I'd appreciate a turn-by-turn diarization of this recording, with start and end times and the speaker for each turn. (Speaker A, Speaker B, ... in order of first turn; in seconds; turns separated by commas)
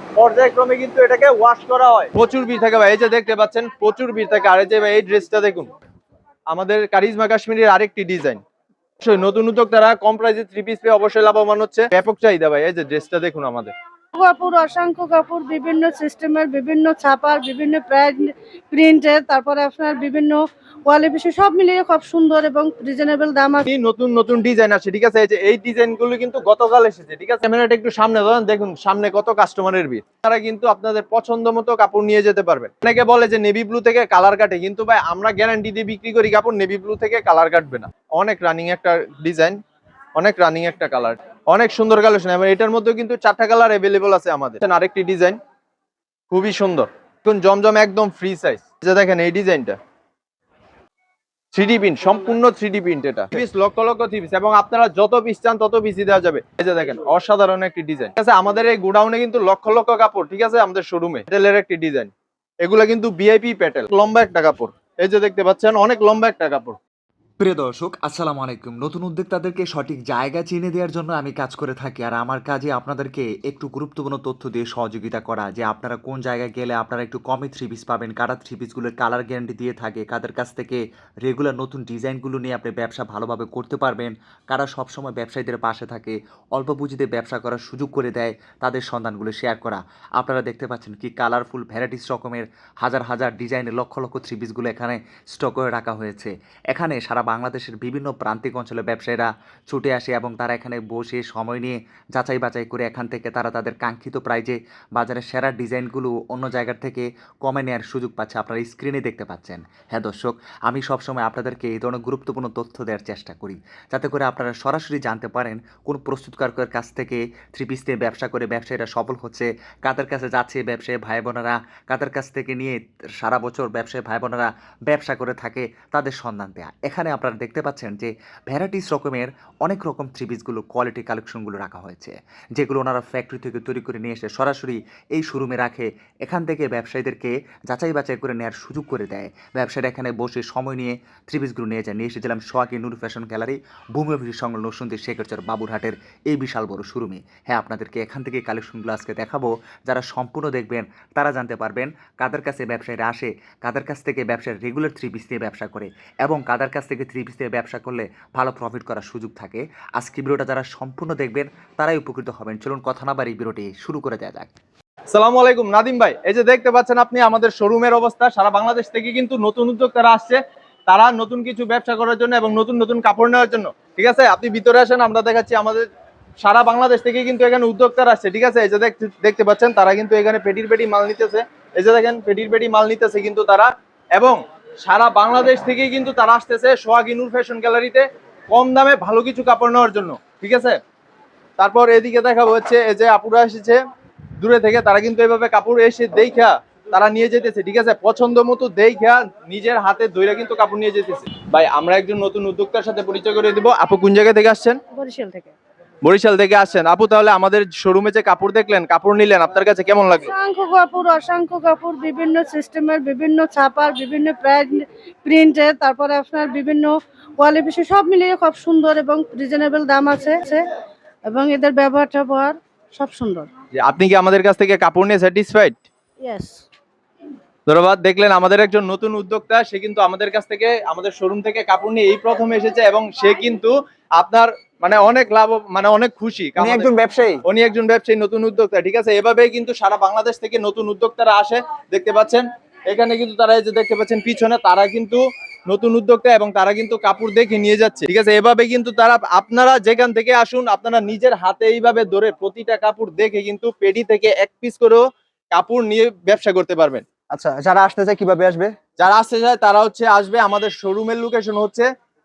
Speaker A: 0.2-5.7, Speaker A: 6.5-8.4, Speaker A: 9.0-13.7, Speaker B: 14.2-23.6, Speaker A: 23.6-39.6, Speaker A: 40.2-45.4, Speaker A: 46.3-49.8, Speaker A: 51.5-62.1, Speaker A: 62.6-66.8, Speaker C: 67.4-164.5, Speaker A: 165.1-175.9, Speaker A: 176.4-190.8, Speaker A: 191.6-193.8, Speaker A: 194.4-204.8, Speaker B: 204.9-205.5, Speaker A: 206.0-210.3, Speaker B: 210.3-220.7, Speaker B: 221.3-223.5, Speaker A: 223.8-225.8, Speaker B: 226.2-226.7, Speaker A: 227.7-236.9, Speaker D: 236.6-237.4, Speaker A: 237.4-257.1, Speaker D: 257.3-258.8, Speaker A: 259.0-261.9